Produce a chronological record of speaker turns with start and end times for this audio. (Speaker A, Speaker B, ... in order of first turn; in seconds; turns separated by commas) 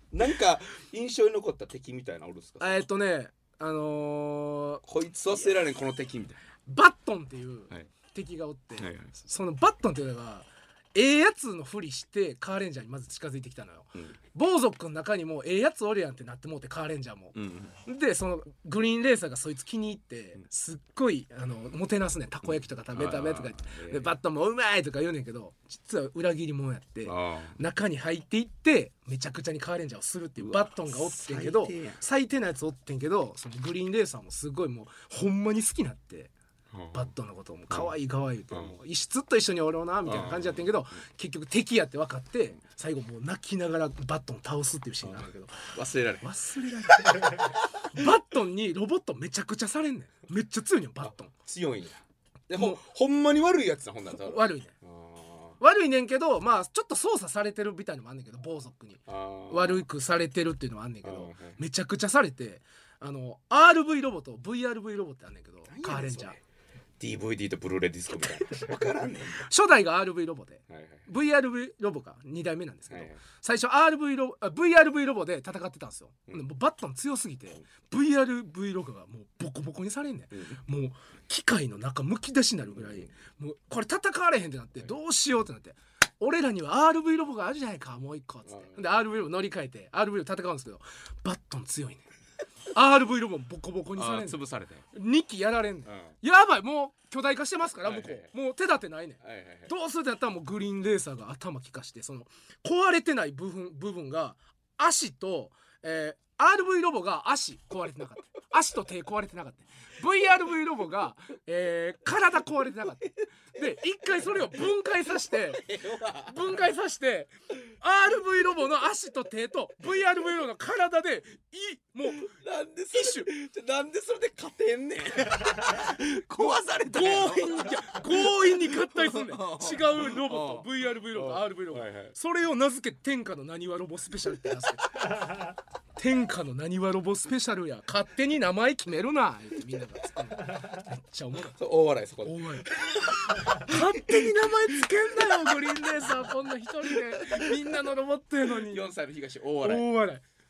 Speaker A: 0.1-2.8, Speaker B: 2.6-4.8, Speaker A: 4.8-6.4, Speaker B: 6.7-36.3, Speaker A: 8.8-9.1, Speaker A: 17.3-17.7, Speaker A: 22.9-24.1, Speaker A: 27.1-27.6, Speaker A: 30.4-32.0, Speaker A: 36.7-37.1, Speaker B: 36.9-51.3, Speaker A: 40.0-40.7, Speaker A: 45.0-46.3, Speaker A: 51.0-55.6, Speaker B: 52.5-52.8, Speaker B: 54.1-54.7, Speaker B: 55.6-66.4, Speaker A: 59.1-59.9, Speaker A: 61.0-61.6, Speaker A: 65.7-66.4, Speaker A: 67.0-69.5, Speaker B: 69.3-92.0, Speaker A: 70.7-71.0, Speaker A: 72.9-73.2, Speaker A: 80.3-80.6, Speaker A: 82.7-83.1, Speaker A: 88.5-88.8, Speaker B: 92.7-94.4, Speaker A: 94.0-94.8, Speaker B: 94.9-122.3, Speaker A: 97.8-98.3, Speaker A: 99.2-99.7, Speaker A: 113.0-113.7, Speaker A: 114.3-114.6, Speaker A: 115.2-116.4, Speaker A: 122.0-132.1, Speaker B: 122.9-123.3, Speaker B: 126.9-134.9, Speaker B: 136.0-141.6, Speaker A: 141.6-146.1, Speaker B: 142.2-142.7, Speaker B: 143.4-148.9, Speaker A: 146.9-147.7, Speaker A: 148.5-149.9, Speaker B: 149.6-150.2